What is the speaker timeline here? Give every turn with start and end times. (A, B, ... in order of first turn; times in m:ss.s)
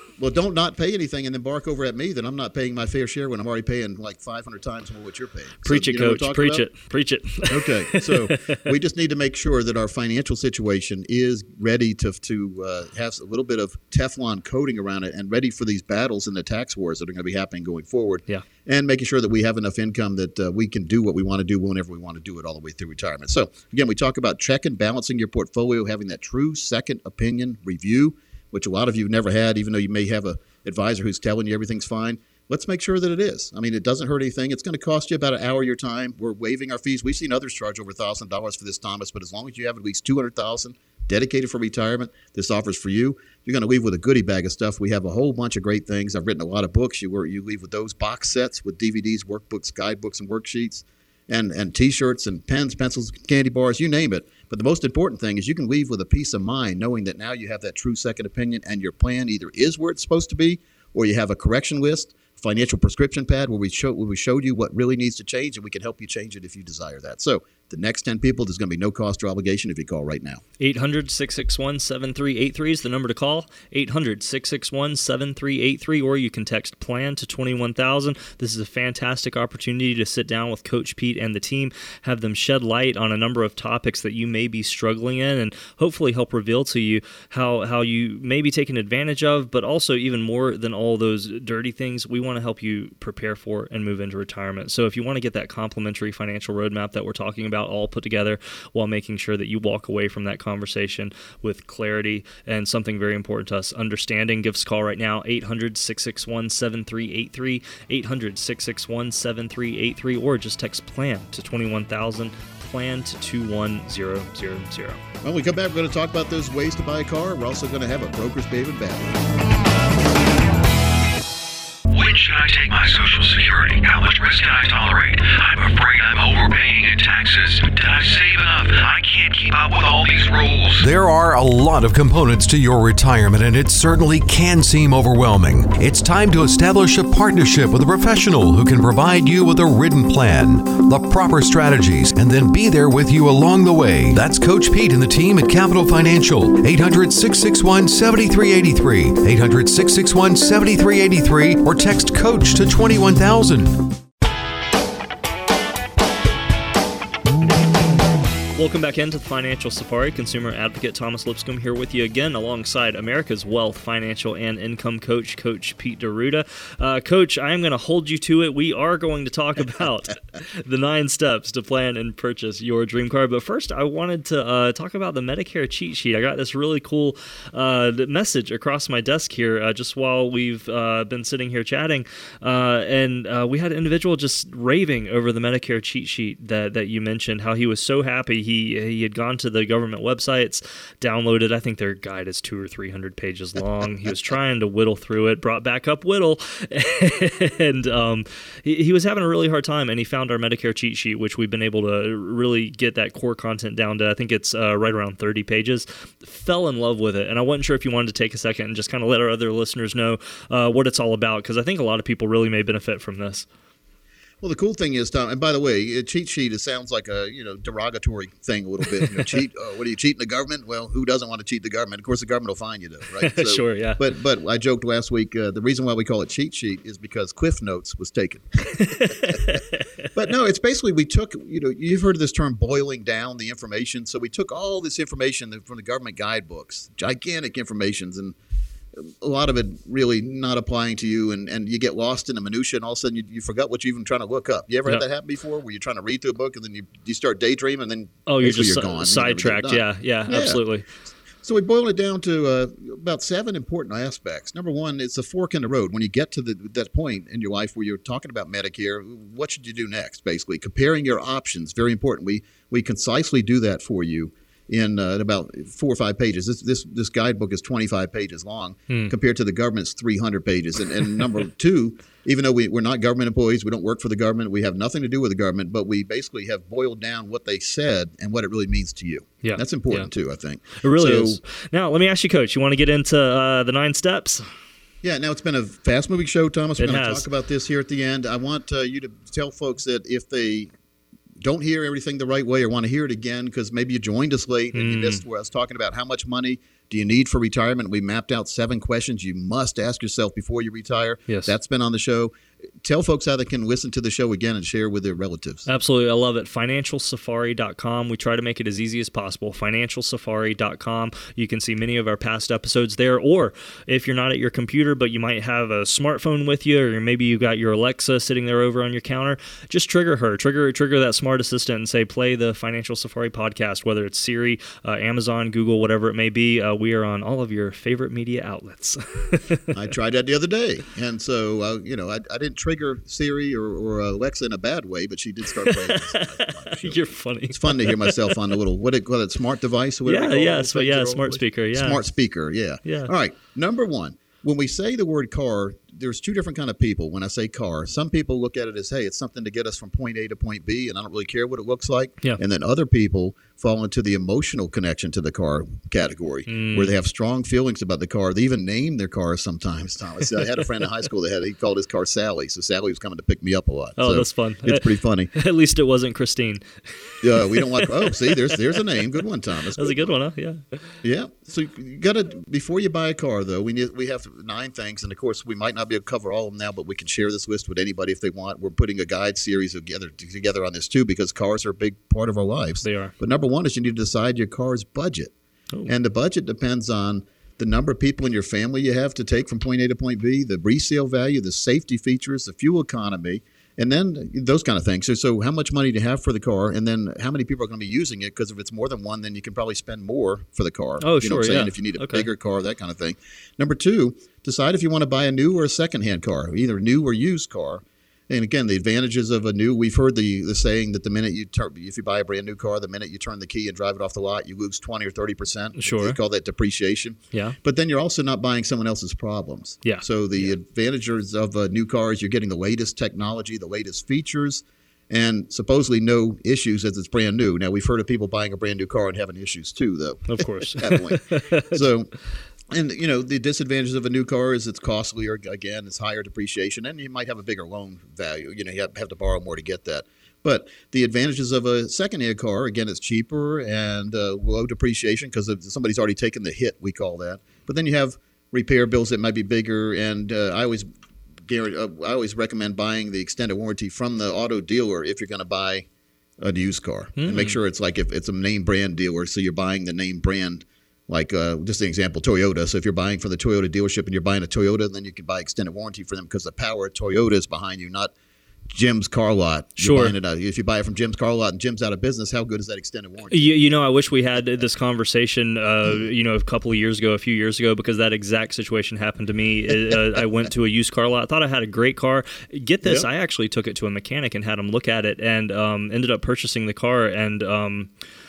0:00.2-0:06.7 A
0:05.6-0:08.6 B
0:07.5-1:10.4 A
1:10.6-1:55.0 B
1:55.2-1:59.2 A
2:01.9-2:10.9 C
2:10.8-2:33.9 D
2:38.6-3:33.5 B
3:34.4-3:49.4 A
3:39.0-3:39.3 B
3:43.2-3:44.0 B
3:48.7-3:49.9 B
3:50.1-3:58.3 A
3:59.0-4:10.6 A
4:08.3-4:10.8 B
4:11.4-4:41.4 A
4:28.9-4:29.1 B
4:39.4-4:40.1 B
4:40.8-4:44.4 B
4:45.0-4:50.7 A
4:46.8-4:47.3 B
4:51.4-5:05.7 A
4:54.7-4:55.2 B
5:01.3-5:01.5 B
5:05.7-5:29.7 B
5:29.7-6:05.3 A
5:35.6-5:38.4 B
5:40.0-5:42.0 B
5:42.8-5:43.1 B
5:56.5-5:56.9 B
6:04.0-6:08.9 B
6:07.2-6:10.1 A
6:09.8-6:10.8 B
6:11.0-6:25.3 A
6:22.8-6:23.1 B
6:25.8-7:12.1 A
6:41.0-6:42.3 B
6:55.8-6:56.2 B
6:59.8-7:00.5 B
7:10.3-7:11.8 B
7:12.7-7:30.9 A
7:31.4-7:35.9 A
7:36.4-7:48.1 A
7:37.2-7:37.6 B
7:48.7-7:53.6 A
7:49.8-7:50.1 B
7:53.3-8:07.9 B
8:02.8-8:03.1 A